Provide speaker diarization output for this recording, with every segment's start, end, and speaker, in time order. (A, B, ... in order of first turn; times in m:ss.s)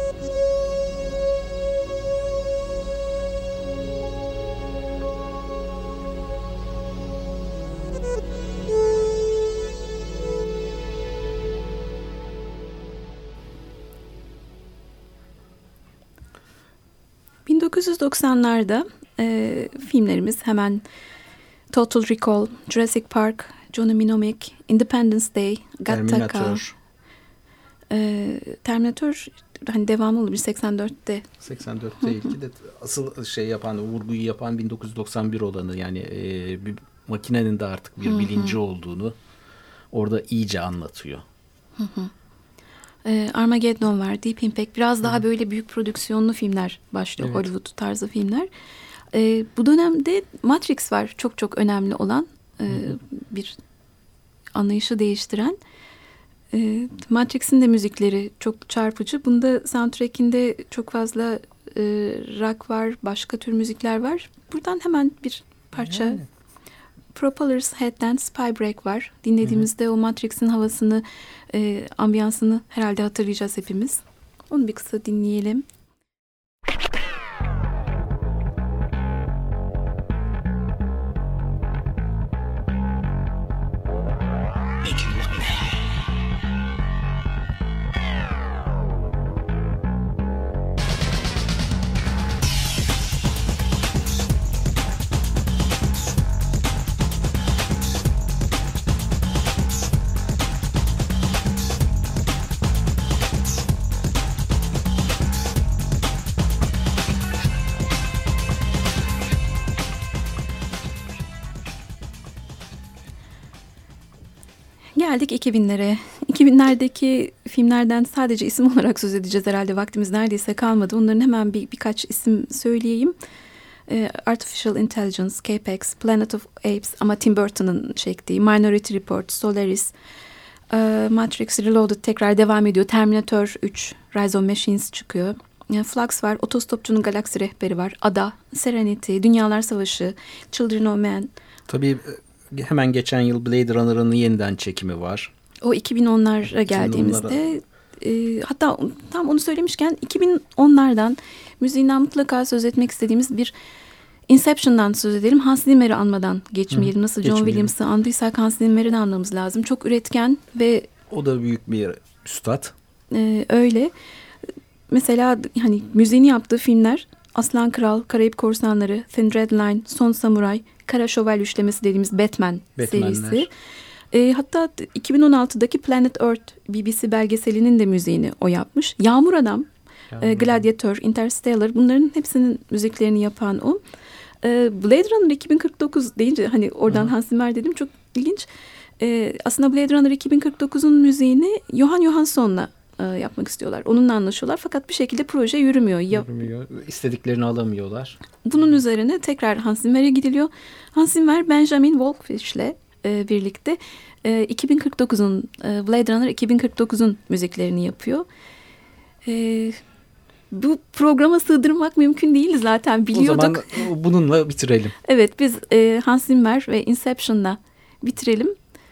0:17.4-0:20.8 A
0:21.7-0:26.6 A
0:25.9-0:26.8 B
0:27.9-0:31.3 A
0:31.4-0:39.2 B
0:38.0-0:38.6 A
0:39.9-0:41.2 B
0:41.8-0:42.1 A
0:43.0-0:48.5 A
0:47.2-0:47.5 B
0:49.1-0:53.6 A
0:54.5-0:55.6 A
0:56.5-1:06.2 A
1:05.8-1:06.2 B
1:07.1-1:15.6 A
1:55.0-2:03.1 A
2:03.9-2:09.9 A
2:10.7-2:21.3 A
2:21.7-2:25.3 B
2:25.6-2:33.5 A
2:26.5-2:27.4 B
2:34.3-2:40.9 A
2:36.7-2:37.7 B
2:41.1-2:42.7 B
2:43.1-2:43.9 A
2:44.9-2:53.5 A
2:52.8-2:53.5 B
2:54.1-3:03.8 A
3:00.1-3:00.5 B
3:04.4-3:08.5 A
3:09.0-3:16.3 A
3:16.1-3:18.2 B
3:18.4-3:28.2 A
3:29.2-3:29.8 A
3:30.5-3:33.8 A
3:33.1-3:34.9 B
3:35.0-3:38.6 A